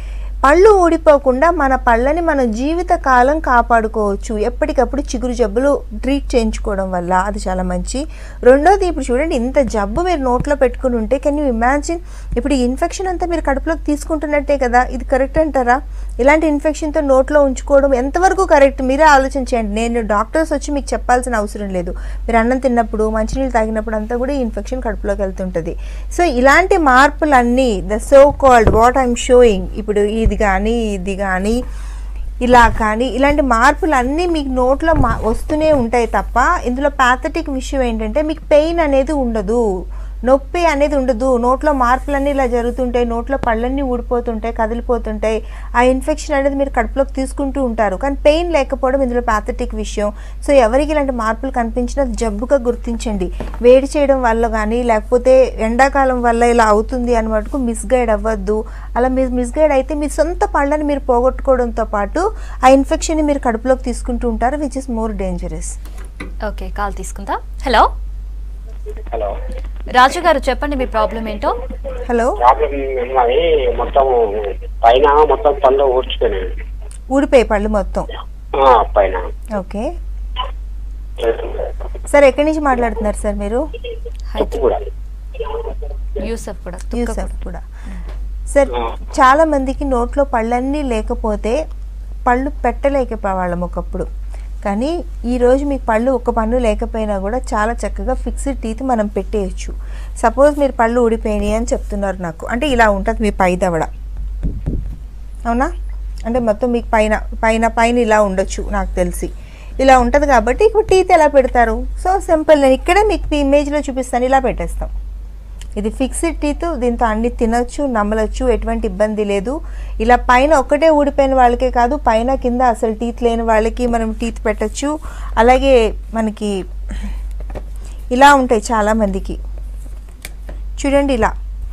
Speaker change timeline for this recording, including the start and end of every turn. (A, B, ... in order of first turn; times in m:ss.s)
0:00.4-0:31.6 A
0:32.4-0:39.6 A
0:40.3-1:05.8 A
1:06.4-1:07.9 B
1:09.9-1:11.5 B
1:12.1-1:12.4 A
1:12.4-1:16.5 C
1:17.1-1:18.1 A
1:18.5-1:19.3 C
1:19.5-1:19.9 A
1:21.2-1:21.7 C
1:22.1-1:23.6 A
1:24.3-1:24.6 B
1:24.4-1:24.8 C
1:26.2-1:27.3 B
1:26.9-1:27.6 A
1:28.5-1:31.6 A
1:32.3-1:34.1 A
1:34.6-1:43.9 A
1:45.5-1:45.7 A
1:46.3-1:54.9 A
1:55.8-2:07.1 A
2:08.1-2:09.4 A
2:10.8-2:11.3 A